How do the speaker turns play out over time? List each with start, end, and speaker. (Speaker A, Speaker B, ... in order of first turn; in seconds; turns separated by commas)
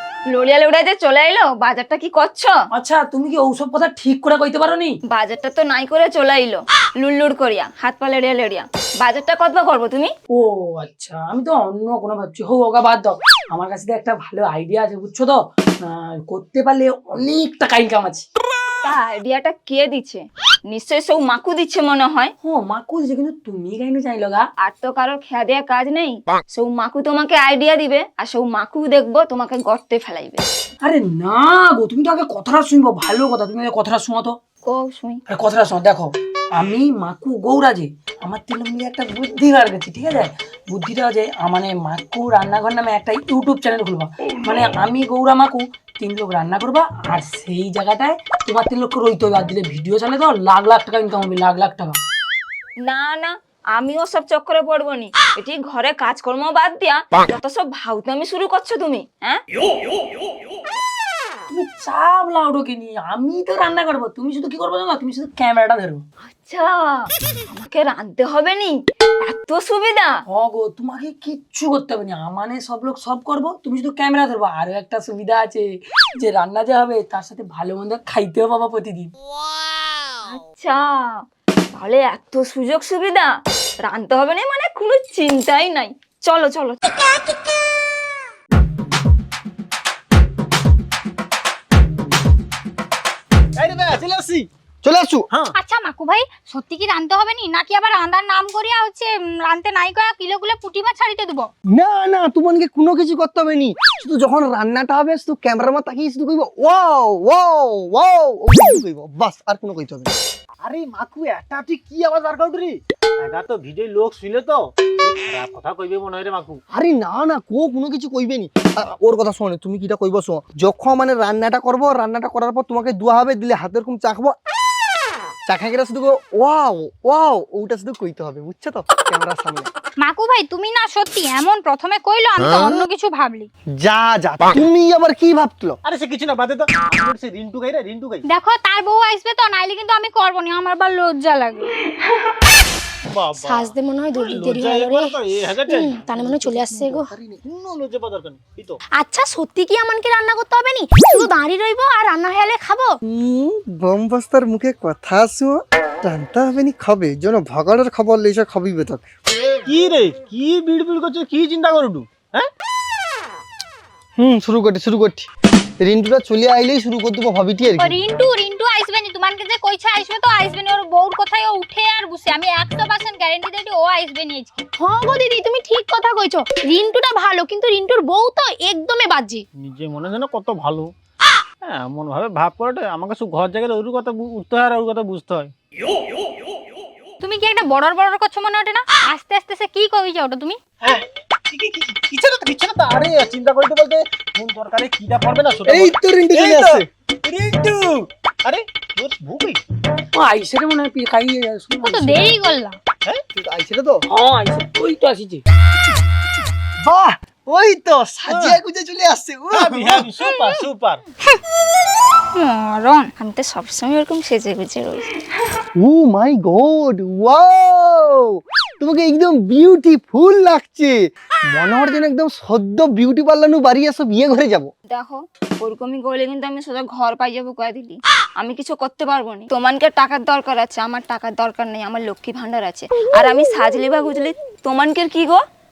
Speaker A: 0.3-2.6, Speaker B: 2.7-5.0, Speaker A: 5.1-10.1, Speaker B: 10.3-18.3, Speaker A: 18.8-22.3, Speaker B: 22.4-24.5, Speaker A: 24.6-30.4, Speaker B: 30.8-34.4, Speaker A: 34.7-35.2, Speaker B: 35.3-52.0, Speaker A: 52.8-59.4, Speaker B: 61.5-66.0, Speaker A: 66.3-70.2, Speaker B: 70.3-79.1, Speaker A: 80.3-86.8, Speaker C: 93.6-94.5, Speaker D: 94.8-95.3, Speaker E: 95.5-101.5, Speaker D: 101.7-110.1, Speaker C: 110.6-116.6, Speaker D: 116.7-124.4, Speaker D: 125.5-129.7, Speaker E: 130.0-133.5, Speaker D: 133.8-135.8, Speaker C: 135.8-138.2, Speaker E: 138.2-141.7, Speaker C: 143.1-146.7, Speaker F: 143.4-147.1, Speaker D: 146.5-147.4, Speaker C: 147.4-148.8, Speaker F: 149.0-153.0, Speaker D: 153.1-159.1, Speaker C: 159.7-162.5, Speaker D: 164.2-165.3, Speaker D: 165.8-168.0, Speaker E: 167.8-174.7, Speaker F: 174.8-179.4, Speaker C: 179.6-180.9, Speaker C: 181.6-185.5, Speaker E: 187.2-190.6, Speaker C: 190.8-199.6, Speaker D: 195.7-196.9, Speaker B: 200.1-202.4, Speaker E: 201.8-202.8, Speaker D: 203.3-204.0, Speaker B: 204.1-205.4, Speaker D: 206.8-210.1, Speaker C: 208.3-208.6, Speaker C: 209.5-211.0, Speaker E: 210.2-210.7, Speaker E: 212.4-213.1, Speaker A: 213.2-215.2, Speaker D: 215.8-221.0, Speaker D: 221.5-224.7, Speaker A: 224.9-235.4